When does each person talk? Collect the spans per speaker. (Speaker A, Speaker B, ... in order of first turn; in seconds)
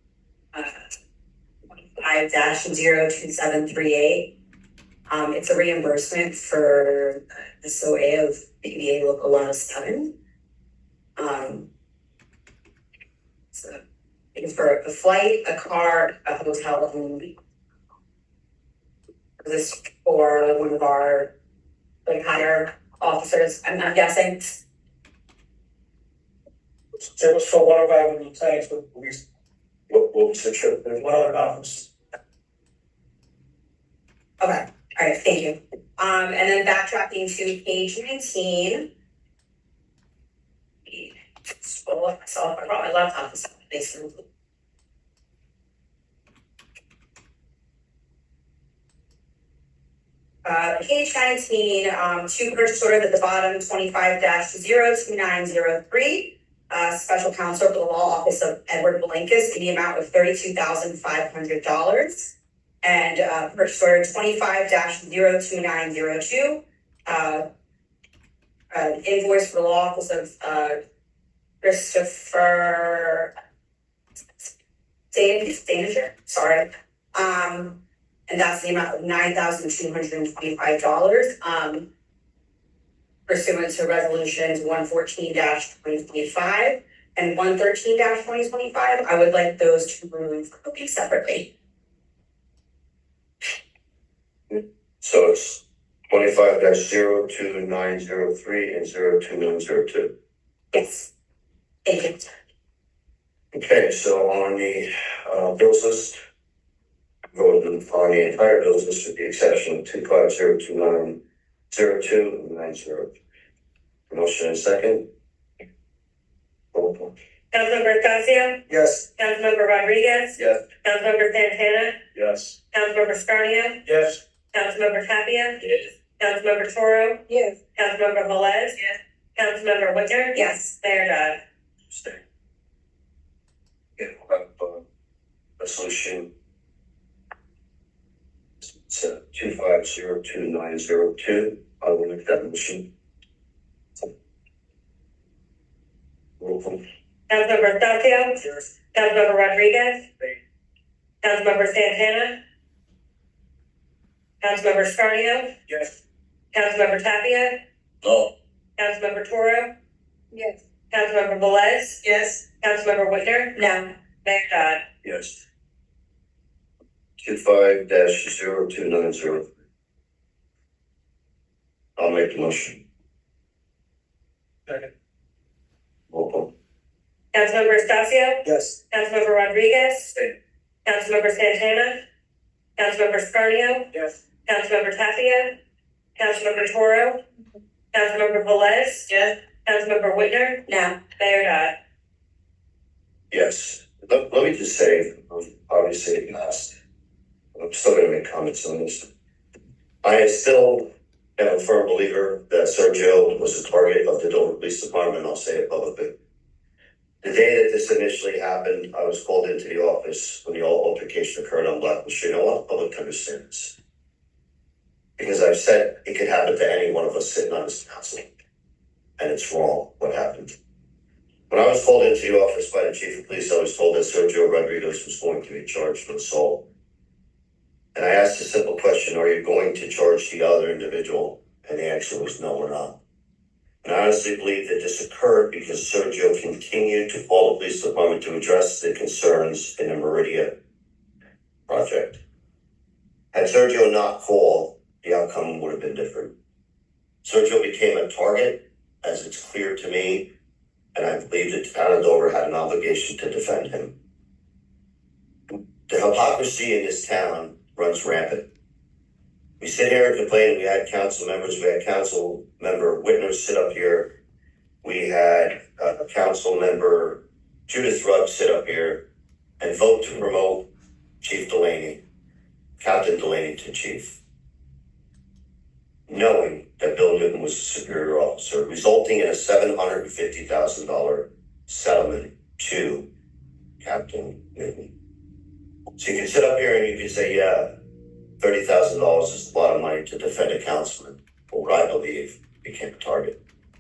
Speaker A: 2.0-4.3, 5.1-10.2, 11.2-11.7, 13.5-13.8, 14.3-17.4, 19.4-21.3, 22.1-24.6, 34.4-38.9, 40.9-44.2, 50.5-67.5, 68.7-70.8, 71.6-73.3, 75.1-81.9, 83.3-91.5, 100.7-101.1, 101.9-102.3, 127.3-127.6, 130.3-130.7, 163.6-163.9, 190.7-191.0
Speaker B: 27.2-29.2, 31.0-31.9, 118.7-119.0, 122.2-122.5, 123.9-124.2, 155.7-156.0, 178.4-178.8
Speaker C: 29.9-31.1, 94.5-100.1, 103.5-106.2, 107.3-111.2, 111.7-113.1, 114.1-115.1, 116.7-117.1, 120.4-120.6, 131.9-132.2, 134.0-134.8, 135.6-136.3, 138.6-142.9, 146.4-146.8, 165.0-165.4, 167.2-169.5, 172.0-172.8, 176.1-176.5, 193.3-196.8, 197.6-199.1, 200.0-206.2, 207.2-213.8, 215.2-218.3, 219.2-220.6, 221.5-226.7, 227.9-233.0, 233.8-240.6, 241.7-242.2, 243.3-246.3, 247.2-250.3, 250.9-253.9, 255.9-258.5, 259.6-264.2, 264.8-269.1, 269.6-270.7, 271.2-272.0, 272.8-274.2, 276.1-283.1, 283.8-284.9, 286.0-287.8, 288.4-293.4
Speaker D: 117.5-118.6, 119.2-122.0, 122.7-123.8, 124.5-128.8, 129.4-131.4, 147.3-150.1, 151.2-152.4, 154.4-155.5, 156.5-157.6, 158.8-159.7, 160.9-162.0, 162.6-163.6, 164.2-164.9, 177.3-180.3, 180.8-182.0, 182.8-183.9, 184.5-185.6, 186.2-187.2, 187.9-191.8